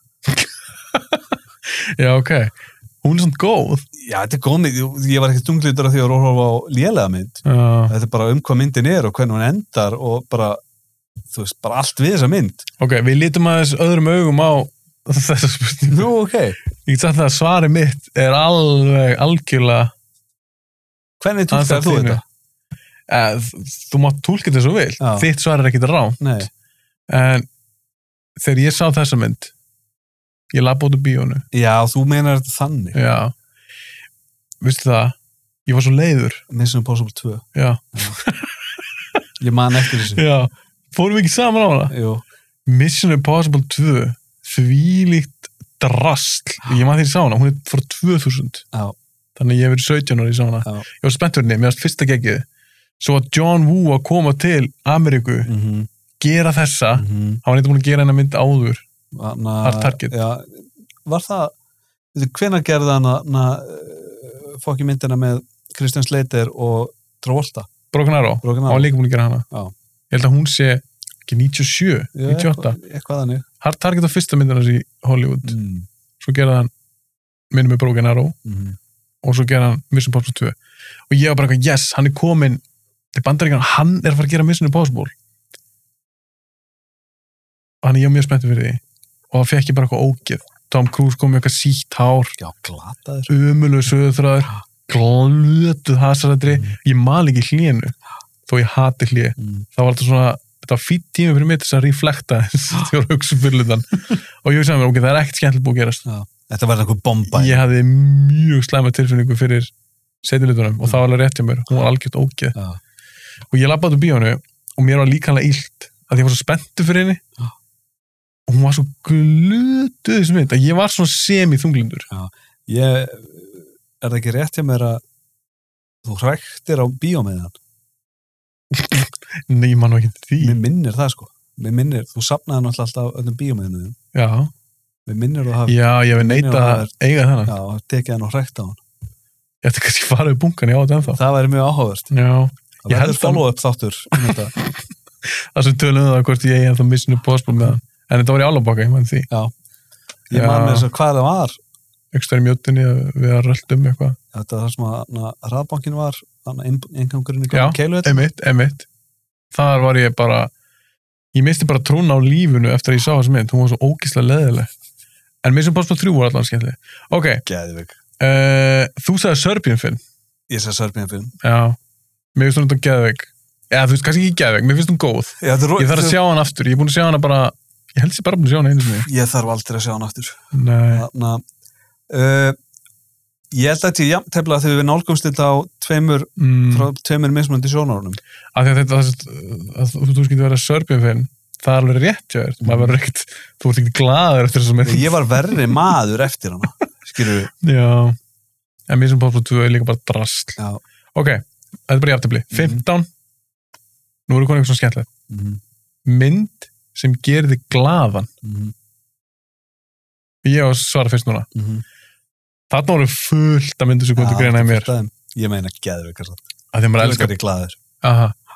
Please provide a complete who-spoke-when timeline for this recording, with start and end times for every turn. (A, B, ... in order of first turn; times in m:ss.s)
0:00.3-0:03.8 A
0:03.9-0:10.6 B
0:07.4-0:07.9 A
0:11.3-0:12.6 B
0:12.8-0:16.1 A
0:15.9-0:16.6 B
0:16.8-0:19.9 A
0:21.2-0:22.2 B
0:21.5-0:22.2 A
0:23.1-0:26.4 A
0:25.0-0:25.3 B
0:26.2-0:26.5 B
0:27.1-0:27.5 A
0:28.4-0:29.5 A
0:30.5-0:31.4 A
0:31.5-0:33.0 B
0:32.9-0:33.3 A
0:34.6-0:36.4 A
0:36.5-0:38.2 B
0:37.5-0:38.8 A
0:39.4-0:40.2 B
0:40.1-0:41.9 A
0:41.9-0:42.2 B
0:42.6-0:48.6 A
0:49.4-0:52.4 A
0:53.0-0:55.5 A
0:55.4-0:55.9 B
0:56.2-0:58.8 A
0:56.9-0:57.4 B
0:59.1-1:01.5 B
0:59.6-1:00.1 A
1:02.1-1:07.7 B
1:07.9-1:09.4 A
1:08.4-1:08.9 B
1:10.1-1:12.8 A
1:12.1-1:13.4 B
1:13.6-1:15.6 A
1:15.4-1:15.9 B
1:16.2-1:16.7 A
1:17.5-1:18.4 A
1:18.4-1:18.8 B
1:19.2-1:20.6 A
1:21.1-1:22.6 A
1:23.1-1:25.1 A
1:27.8-1:28.8 A
1:29.3-1:32.4 A
1:32.4-1:33.3 B
1:33.3-1:46.0 A
1:36.5-1:36.8 B
1:39.4-1:39.6 B
1:46.0-1:47.6 B
1:47.3-1:49.7 A
1:50.2-1:52.6 A
1:53.5-1:57.2 A
1:58.5-2:02.1 A
2:02.1-2:05.0 B
2:06.0-2:07.6 B
2:08.7-2:10.6 A
2:10.4-2:14.0 B
2:14.1-2:14.5 A
2:15.0-2:16.9 B
2:15.7-2:17.5 A
2:17.5-2:18.8 B
2:19.6-2:21.2 A
2:21.0-2:22.1 B
2:22.1-2:23.4 A
2:22.8-2:24.5 B
2:25.2-2:29.3 A
2:30.3-2:31.6 B
2:30.3-2:30.9 A
2:32.1-2:34.2 A
2:34.3-2:38.2 B
2:37.5-2:38.9 A
2:39.5-2:40.5 A
2:41.3-2:44.7 A
2:45.4-2:47.4 A
2:47.4-2:48.0 B
2:48.2-2:50.0 A
2:50.5-2:51.3 B
2:51.4-2:51.8 A
2:52.3-2:59.1 A
2:55.4-2:56.2 B
2:59.0-3:01.4 B
3:00.5-3:01.1 A
3:02.1-3:02.6 B
3:03.5-3:08.2 B
3:06.4-3:06.9 A
3:08.5-3:15.8 A
3:12.6-3:13.0 B
3:14.8-3:17.5 B
3:17.6-3:18.2 A
3:18.9-3:20.6 A
3:21.1-3:23.1 A
3:22.5-3:22.8 B
3:24.3-3:25.1 A
3:25.3-3:25.6 B
3:26.0-3:28.3 A
3:28.4-3:28.7 B
3:30.4-3:31.5 A
3:31.5-3:31.8 B
3:32.7-3:34.9 A
3:34.1-3:36.5 B
3:36.7-3:37.3 A
3:37.0-3:37.8 B
3:38.0-3:38.4 A